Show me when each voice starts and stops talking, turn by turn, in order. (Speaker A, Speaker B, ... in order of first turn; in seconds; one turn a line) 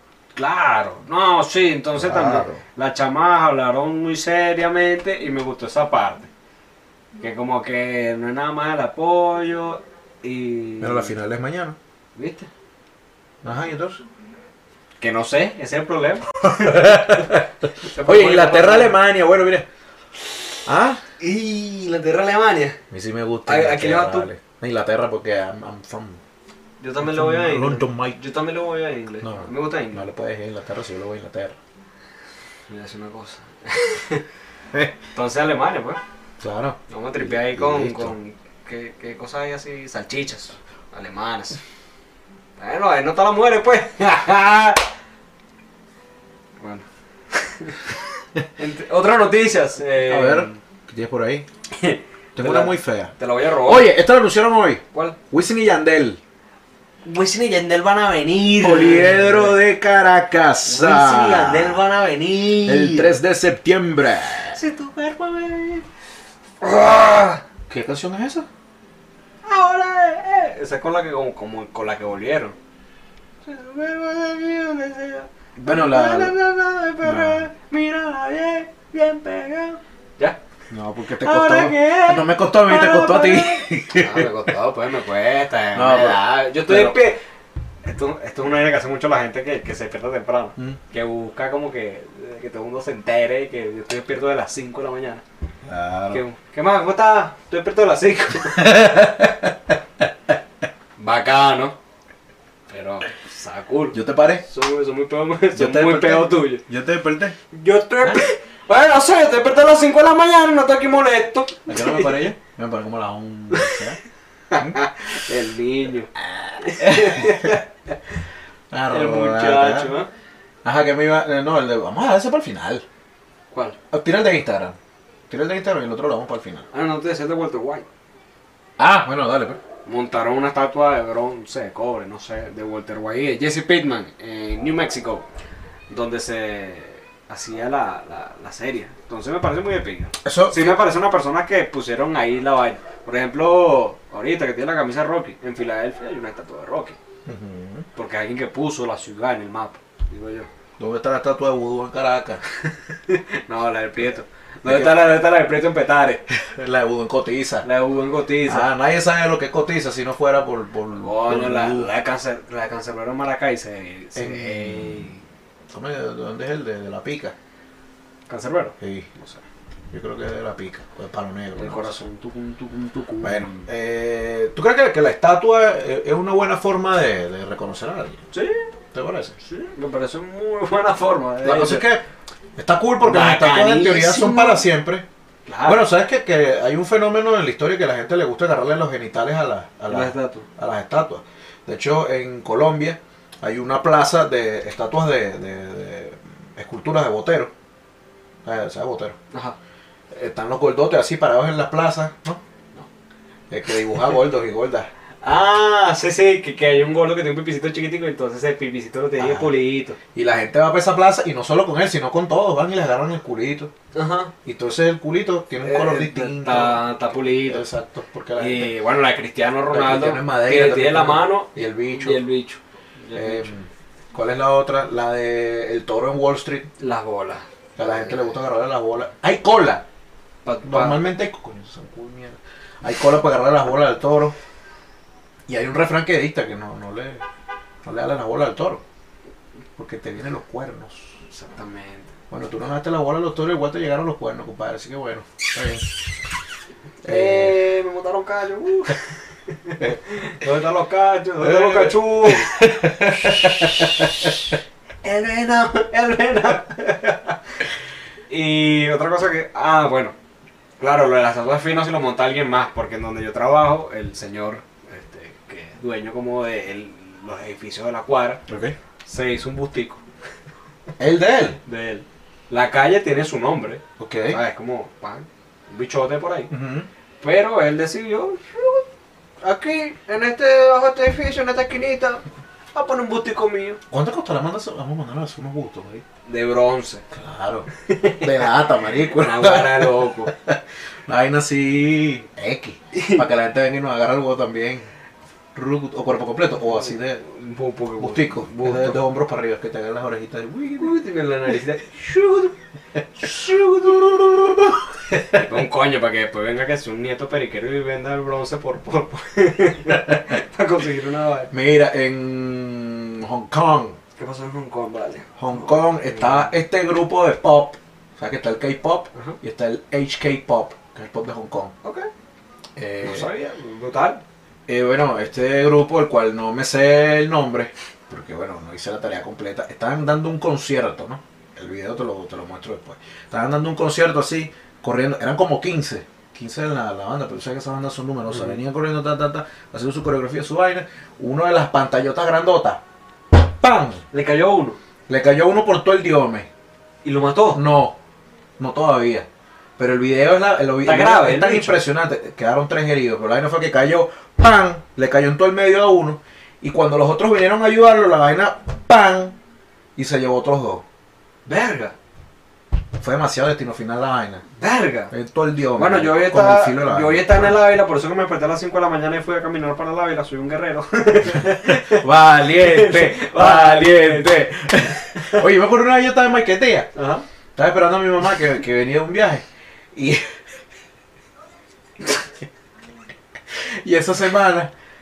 Speaker A: 0.3-6.3
Speaker B: 1.9-2.6
Speaker A: 7.2-11.1
Speaker B: 10.8-11.8
Speaker A: 12.1-12.5
Speaker B: 13.4-14.0
Speaker A: 15.0-19.0
Speaker B: 16.5-19.6
Speaker B: 20.6-21.0
Speaker A: 21.2-22.8
Speaker B: 22.9-26.2
Speaker A: 23.4-24.3
Speaker A: 26.8-30.1
Speaker B: 27.0-28.2
Speaker B: 29.2-31.6
Speaker A: 32.7-34.2
Speaker A: 35.1-36.0
Speaker B: 36.4-38.1
Speaker A: 36.9-41.6
Speaker A: 42.6-44.9
Speaker A: 46.6-48.0
Speaker A: 48.6-50.6
Speaker B: 50.0-51.5
Speaker A: 51.7-53.9
Speaker B: 52.3-56.2
Speaker A: 57.0-59.6
Speaker B: 58.6-61.8
Speaker A: 60.6-63.1
Speaker B: 62.6-64.6
Speaker A: 64.5-65.8
Speaker A: 66.6-67.4
Speaker B: 67.7-68.5
Speaker A: 69.4-72.5
Speaker A: 73.4-80.4
Speaker B: 75.6-76.3
Speaker B: 77.0-77.5
Speaker B: 80.7-84.3
Speaker A: 81.2-87.2
Speaker B: 85.7-87.0
Speaker A: 87.8-95.2
Speaker B: 95.6-96.2
Speaker A: 96.1-98.7
Speaker B: 98.5-100.0
Speaker A: 101.0-101.8
Speaker A: 102.7-106.6
Speaker B: 103.9-104.4
Speaker B: 105.5-107.4
Speaker A: 107.5-112.2
Speaker B: 111.7-114.0
Speaker A: 113.5-113.8
Speaker A: 114.5-117.6
Speaker B: 116.6-117.6
Speaker B: 118.7-119.9
Speaker A: 118.9-120.1
Speaker B: 120.6-122.8
Speaker A: 123.5-123.8
Speaker B: 123.9-124.8
Speaker B: 125.3-126.7
Speaker A: 126.7-127.9
Speaker B: 128.8-129.6
Speaker A: 129.8-135.3
Speaker A: 135.9-147.0
Speaker B: 140.2-140.8
Speaker B: 147.2-147.9
Speaker A: 147.9-150.5
Speaker B: 150.8-152.4
Speaker A: 152.5-156.2
Speaker B: 154.6-155.1
Speaker B: 156.3-157.7
Speaker A: 157.6-158.7
Speaker B: 158.4-161.9
Speaker A: 161.0-165.2
Speaker B: 164.1-165.1
Speaker B: 165.7-167.3
Speaker A: 168.3-169.4
Speaker B: 168.8-169.1
Speaker B: 169.9-171.9
Speaker A: 171.6-173.7
Speaker B: 173.2-178.2
Speaker A: 178.3-178.7
Speaker B: 178.9-179.4
Speaker A: 179.4-181.8
Speaker B: 181.4-182.0
Speaker B: 182.6-185.1
Speaker A: 183.0-184.7
Speaker A: 185.4-185.9
Speaker B: 185.6-197.5
Speaker A: 189.9-190.5
Speaker B: 198.4-199.2
Speaker B: 200.1-202.4
Speaker B: 203.5-204.9
Speaker A: 205.2-210.0
Speaker B: 209.2-209.5
Speaker B: 210.1-213.7
Speaker A: 213.9-214.3
Speaker B: 214.4-218.7
Speaker A: 215.6-217.7
Speaker A: 218.4-223.5
Speaker B: 219.7-222.2
Speaker B: 223.1-226.7
Speaker A: 226.8-227.5
Speaker B: 227.8-229.8
Speaker A: 230.4-231.0
Speaker B: 230.6-234.3
Speaker B: 235.5-237.2
Speaker B: 237.8-238.8
Speaker B: 239.8-241.2
Speaker A: 241.3-242.1
Speaker B: 242.3-245.9
Speaker A: 247.0-257.4
Speaker B: 247.0-247.6
Speaker B: 251.4-254.3
Speaker A: 258.3-260.1
Speaker A: 260.8-268.4
Speaker B: 268.5-268.8
Speaker A: 269.0-270.0
Speaker B: 271.0-271.6
Speaker A: 271.6-276.5
Speaker B: 274.0-274.4
Speaker B: 276.5-276.9
Speaker A: 277.2-278.8
Speaker A: 279.4-282.2
Speaker A: 282.7-283.8
Speaker B: 283.9-286.0
Speaker A: 286.2-287.0
Speaker B: 287.1-294.9
Speaker A: 287.8-290.3
Speaker A: 292.9-293.2
Speaker B: 295.5-297.2
Speaker A: 297.2-299.0
Speaker B: 298.0-301.0
Speaker A: 300.8-302.5
Speaker B: 303.1-305.4
Speaker A: 305.3-311.5
Speaker B: 309.9-310.2
Speaker B: 311.5-314.0
Speaker A: 314.2-316.5
Speaker B: 315.4-321.7
Speaker A: 321.8-322.1
Speaker B: 322.8-323.3
Speaker A: 323.0-324.2
Speaker B: 324.7-342.8
Speaker A: 338.3-338.6
Speaker B: 343.3-344.0
Speaker A: 344.1-344.8
Speaker B: 345.1-346.5
Speaker A: 347.0-347.6
Speaker B: 347.5-348.0
Speaker B: 348.6-349.3
Speaker B: 349.8-359.4
Speaker A: 350.8-351.8
Speaker B: 359.9-360.8
Speaker A: 361.4-361.9
Speaker B: 363.0-364.4
Speaker A: 364.6-365.1
Speaker B: 365.1-367.6
Speaker A: 365.8-375.4
Speaker B: 371.4-376.9
Speaker A: 376.9-377.2
Speaker B: 377.6-380.2
Speaker B: 383.5-384.7